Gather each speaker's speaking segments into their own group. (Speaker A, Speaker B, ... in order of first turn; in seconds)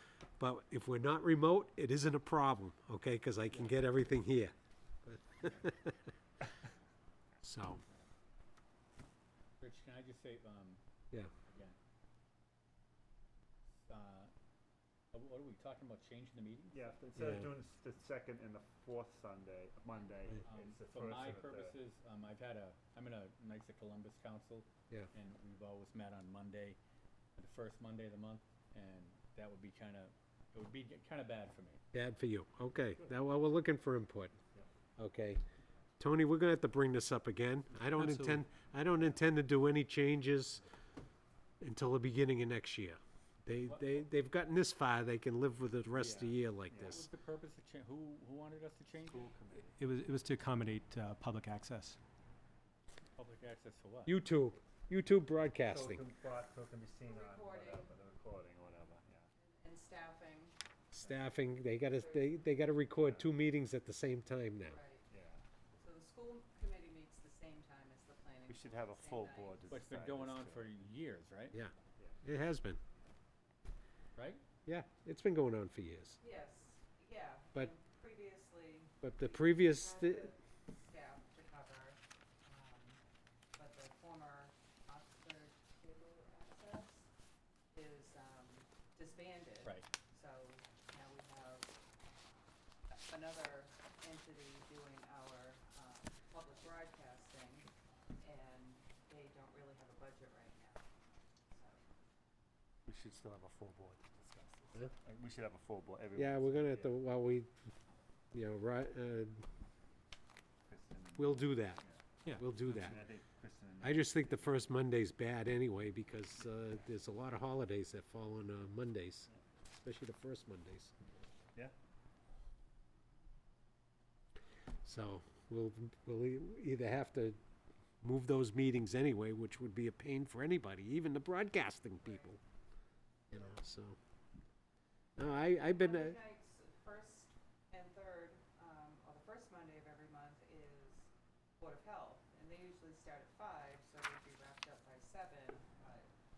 Speaker A: 0.4-4.5, 5.0-6.0, 7.4-7.8, 17.2-17.5, 31.9-34.4, 35.0-35.4, 36.0-40.6, 41.6-47.1, 54.1-56.0, 60.9-64.8, 72.2-72.8, 74.7-76.2, 79.0-80.3, 106.2-107.5, 108.3-109.5, 111.2-113.0, 113.8-119.3, 119.8-120.9, 124.8-127.4, 128.0-132.4, 133.3-134.0, 135.2-136.2
Speaker B: 9.6-10.8, 11.5-11.8, 13.8-14.3, 15.1-16.8, 20.4-26.8, 27.4-31.8, 38.0-38.4, 43.6-44.0, 46.8-49.3, 53.2-54.2, 69.7-71.6, 74.2-74.4, 89.6-89.9
Speaker C: 16.7-21.8, 46.0-47.0, 49.0-49.8, 55.6-59.3, 63.0-63.3, 65.1-65.4, 68.5-70.8, 71.9-72.2, 102.9-107.0, 110.7-114.7
Speaker D: 49.7-52.0
Speaker E: 57.0-57.9, 59.4-60.6, 61.9-62.5, 64.7-65.1, 65.8-69.8, 76.2-83.0, 83.5-87.1, 87.7-91.7, 92.9-100.8, 101.4-101.8, 132.0-132.3, 135.6-146.1